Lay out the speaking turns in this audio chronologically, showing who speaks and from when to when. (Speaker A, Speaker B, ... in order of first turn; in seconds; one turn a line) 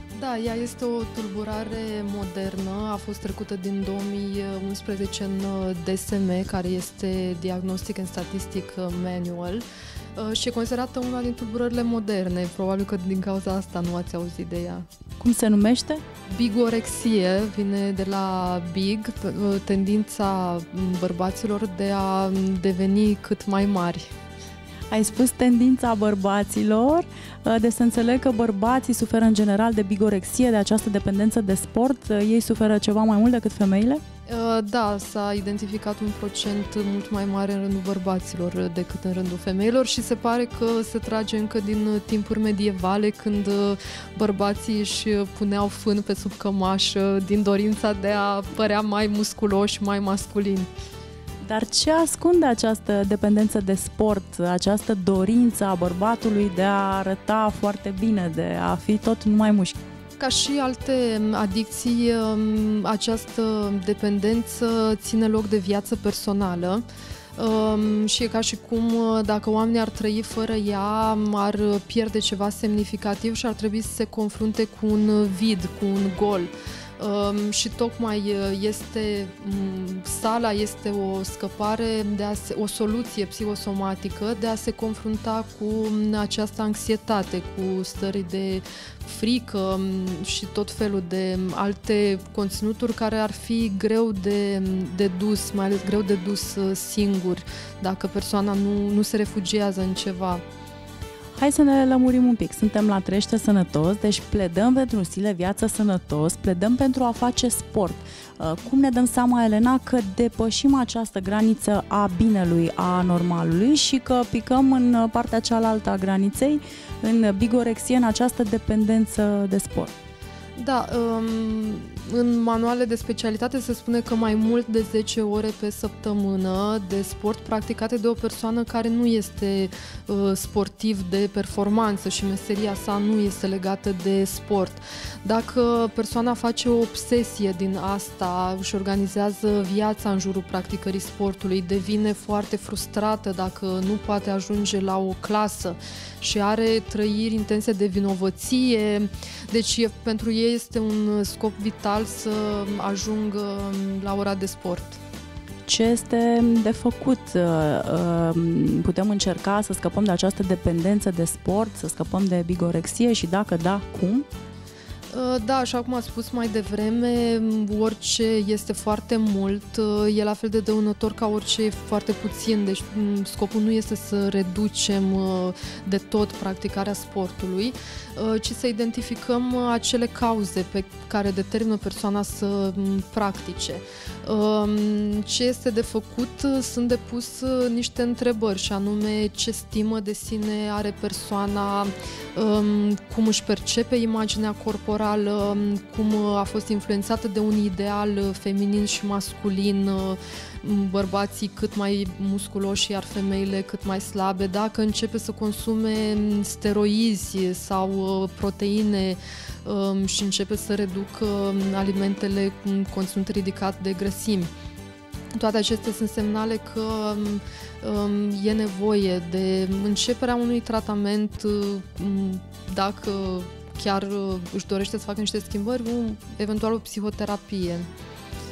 Speaker A: 0.1-14.8
Speaker B: 15.2-16.0
Speaker A: 16.3-24.1
Speaker B: 24.9-34.0
Speaker A: 34.3-50.7
Speaker B: 51.4-59.8
Speaker A: 60.2-66.8
Speaker A: 67.3-100.4
Speaker B: 101.3-119.9
Speaker A: 120.5-155.0
Speaker B: 155.7-164.2
Speaker A: 165.1-214.5
Speaker A: 215.3-227.9